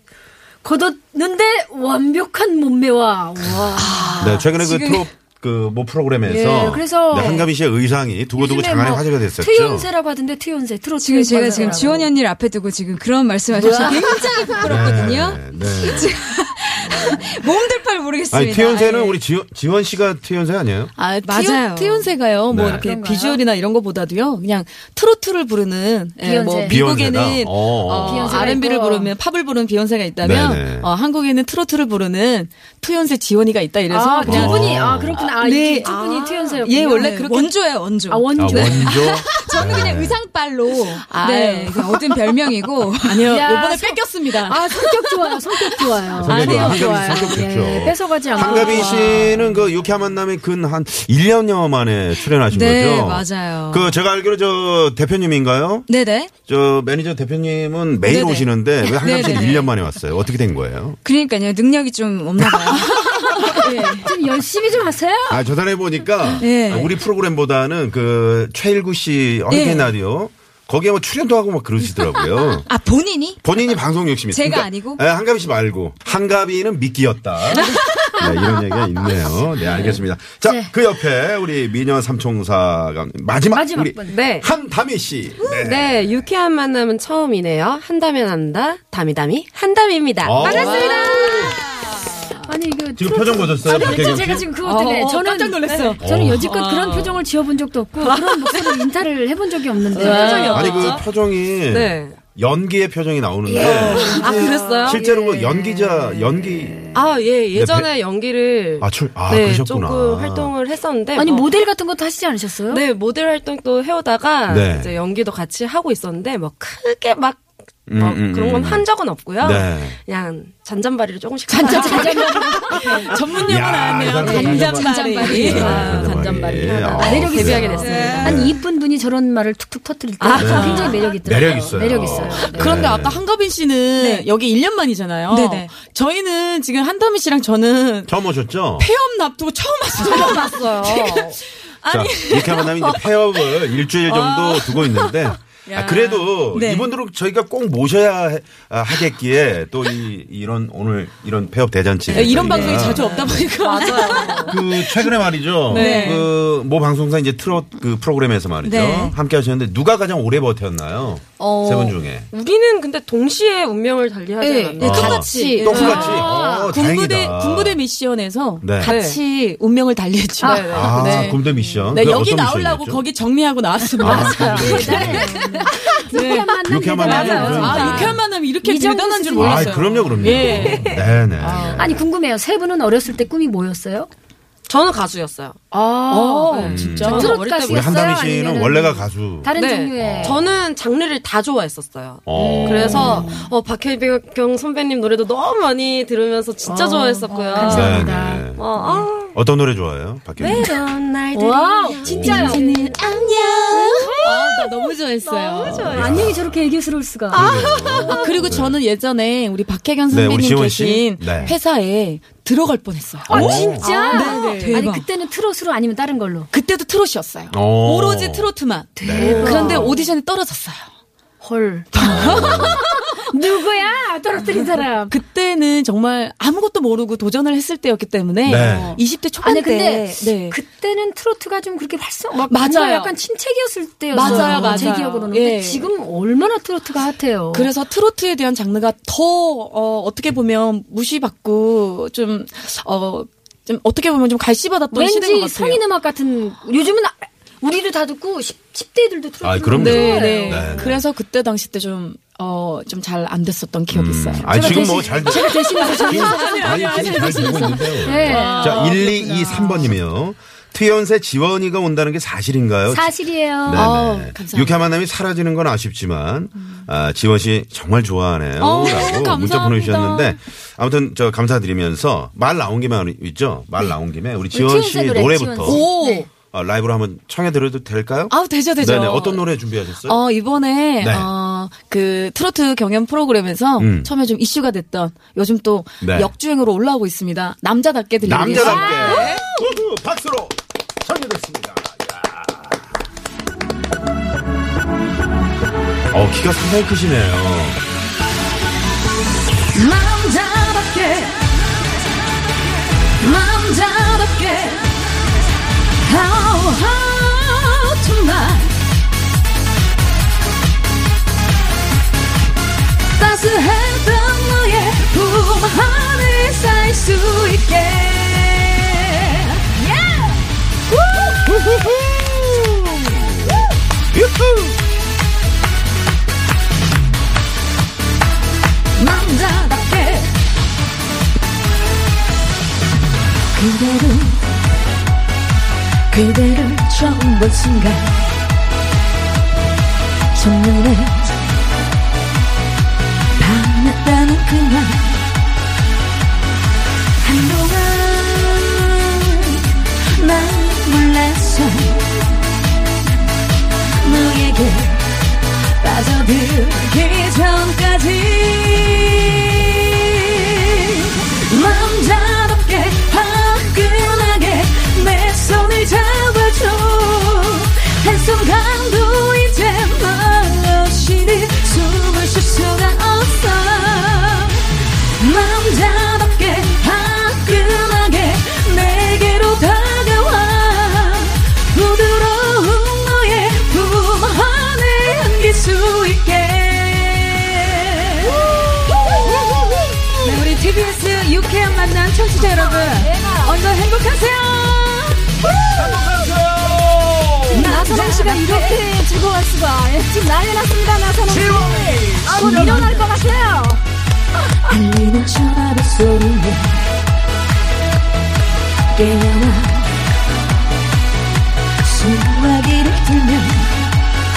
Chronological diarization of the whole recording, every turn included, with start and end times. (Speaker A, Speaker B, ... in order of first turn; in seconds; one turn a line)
Speaker A: 0.6-4.2
Speaker B: 3.7-4.5
Speaker C: 3.8-5.0
Speaker D: 4.2-9.9
Speaker A: 6.2-7.5
Speaker A: 8.3-12.1
Speaker C: 11.0-19.2
Speaker A: 13.5-15.0
Speaker B: 13.6-13.9
Speaker D: 14.6-16.2
Speaker D: 18.3-20.9
Speaker B: 21.0-38.0
Speaker E: 21.2-22.1
Speaker C: 21.4-21.7
Speaker D: 22.5-22.9
Speaker A: 22.6-23.4
Speaker A: 26.2-26.8
Speaker D: 26.6-28.5
Speaker A: 27.9-29.1
Speaker D: 30.2-30.9
Speaker A: 33.9-37.5
Speaker D: 34.2-35.2
Speaker C: 36.9-43.3
Speaker A: 38.1-39.2
Speaker D: 38.3-40.2
Speaker B: 40.7-42.3
Speaker B: 43.0-44.6
Speaker A: 43.2-49.3
Speaker D: 46.1-55.9
Speaker B: 46.3-47.3
Speaker B: 48.4-49.4
Speaker C: 52.4-54.0
Speaker C: 55.9-56.3
Speaker D: 56.5-61.0
Speaker C: 58.0-59.7
Speaker B: 59.0-59.5
Speaker C: 61.0-63.9
Speaker A: 63.4-65.4
Speaker B: 63.4-64.0
Speaker D: 65.3-72.7
Speaker C: 66.4-67.0
Speaker C: 69.5-69.9
Speaker C: 71.8-73.4
Speaker D: 73.4-86.2
Speaker C: 74.2-75.0
Speaker C: 77.6-78.2
Speaker A: 77.6-78.5
Speaker A: 80.4-80.7
Speaker A: 83.5-84.2
Speaker E: 84.1-84.5
Speaker E: 85.5-91.5
Speaker D: 90.2-91.6
Speaker A: 90.4-91.6
Speaker B: 90.5-92.4
Speaker A: 92.5-101.0
Speaker D: 93.0-94.5
Speaker B: 94.6-97.2
Speaker E: 95.7-96.0
Speaker D: 96.0-96.5
Speaker E: 98.0-98.8
Speaker E: 99.9-101.1
Speaker B: 100.0-100.5
Speaker D: 100.5-106.8
Speaker E: 101.7-102.2
Speaker E: 103.5-105.5
Speaker B: 103.6-104.7
Speaker A: 103.8-104.2
Speaker A: 104.9-105.5
Speaker A: 106.7-106.9
Speaker E: 106.9-111.5
Speaker D: 107.5-107.9
Speaker D: 108.8-110.5
Speaker A: 111.2-112.8
Speaker E: 112.7-117.4
Speaker D: 114.5-115.0
Speaker D: 117.9-118.9
Speaker E: 118.0-123.2
Speaker D: 119.4-120.0
Speaker B: 121.5-128.5
Speaker A: 121.6-122.8
Speaker D: 123.4-128.6
Speaker E: 124.2-128.4
Speaker C: 124.3-126.2
Speaker A: 126.9-132.8
Speaker E: 130.2-131.0
Speaker D: 130.3-133.2
Speaker B: 132.2-138.1
Speaker C: 134.0-134.3
Speaker C: 135.3-135.7
Speaker D: 138.1-138.9
Speaker B: 138.8-145.1
Speaker E: 140.0-141.4
Speaker D: 141.9-153.5
Speaker B: 145.7-146.9
Speaker B: 152.1-156.3
Speaker E: 152.3-154.6
Speaker C: 153.7-154.4
Speaker D: 154.4-162.3
Speaker C: 155.8-156.1
Speaker C: 158.6-159.2
Speaker B: 161.4-162.0
Speaker E: 162.3-166.3
Speaker B: 164.4-181.1
Speaker D: 164.8-167.8
Speaker A: 165.8-166.7
Speaker D: 168.6-168.9
Speaker E: 168.8-169.2
Speaker A: 170.4-171.2
Speaker E: 170.4-171.8
Speaker D: 170.7-173.0
Speaker A: 174.0-180.2
Speaker D: 174.0-175.3
Speaker E: 174.3-175.4
Speaker D: 176.6-178.2
Speaker D: 179.3-182.0
Speaker E: 180.2-181.8
Speaker A: 181.7-184.1
Speaker E: 184.7-188.1
Speaker B: 185.7-187.3
Speaker D: 186.6-190.4
Speaker A: 187.0-190.4
Speaker E: 189.5-198.1
Speaker D: 192.2-193.3
Speaker A: 192.3-193.5
Speaker A: 196.7-199.0
Speaker B: 197.3-197.7
Speaker D: 197.7-198.6
Speaker E: 198.6-199.3
Speaker D: 199.3-200.7
Speaker E: 200.4-202.8
Speaker A: 201.3-203.2
Speaker B: 202.0-206.0
Speaker D: 202.0-202.7
Speaker E: 203.7-204.5
Speaker A: 203.7-204.6
Speaker A: 205.2-208.4
Speaker E: 205.5-206.2
Speaker D: 205.7-206.7
Speaker E: 207.3-208.3
Speaker D: 207.3-208.8
Speaker B: 207.5-215.0
Speaker D: 210.1-211.6
Speaker A: 213.3-216.5
Speaker D: 213.3-214.0
Speaker E: 213.8-214.8
Speaker B: 216.5-220.9
Speaker D: 217.5-218.5
Speaker A: 219.0-220.0
Speaker D: 219.0-220.0
Speaker A: 221.4-225.2
Speaker B: 221.9-223.2
Speaker D: 222.0-222.8
Speaker B: 224.4-230.6
Speaker D: 228.4-229.0
Speaker A: 228.6-237.7
Speaker B: 232.5-233.1
Speaker B: 234.1-235.9
Speaker B: 237.5-245.8
Speaker A: 244.9-250.9
Speaker D: 249.4-251.0
Speaker B: 249.7-259.8
Speaker D: 253.9-275.9
Speaker A: 254.4-260.0
Speaker A: 262.9-263.9
Speaker B: 263.7-264.8
Speaker B: 268.6-270.4
Speaker A: 274.5-276.3
Speaker B: 275.6-276.3
Speaker D: 276.4-280.2
Speaker B: 278.3-289.5
Speaker D: 281.0-281.3
Speaker D: 283.8-284.1
Speaker D: 286.0-286.3
Speaker D: 288.2-292.9
Speaker A: 288.5-289.4
Speaker D: 296.1-297.8
Speaker B: 299.7-301.6
Speaker B: 303.1-305.2
Speaker B: 305.9-308.8
Speaker B: 313.1-319.6
Speaker A: 319.8-320.3
Speaker D: 321.1-324.8
Speaker B: 328.9-330.4
Speaker B: 333.5-334.4
Speaker B: 336.1-338.3
Speaker B: 340.3-341.3
Speaker B: 343.4-345.2
Speaker B: 347.2-352.2
Speaker B: 354.0-388.5
Speaker D: 388.2-390.4
Speaker B: 389.1-395.3
Speaker C: 390.4-392.4
Speaker A: 392.4-393.6
Speaker D: 395.4-397.8
Speaker A: 397.5-403.8
Speaker B: 397.5-398.8
Speaker D: 401.2-403.1
Speaker B: 402.4-402.9
Speaker B: 404.6-406.9
Speaker B: 408.9-410.0
Speaker B: 411.8-413.7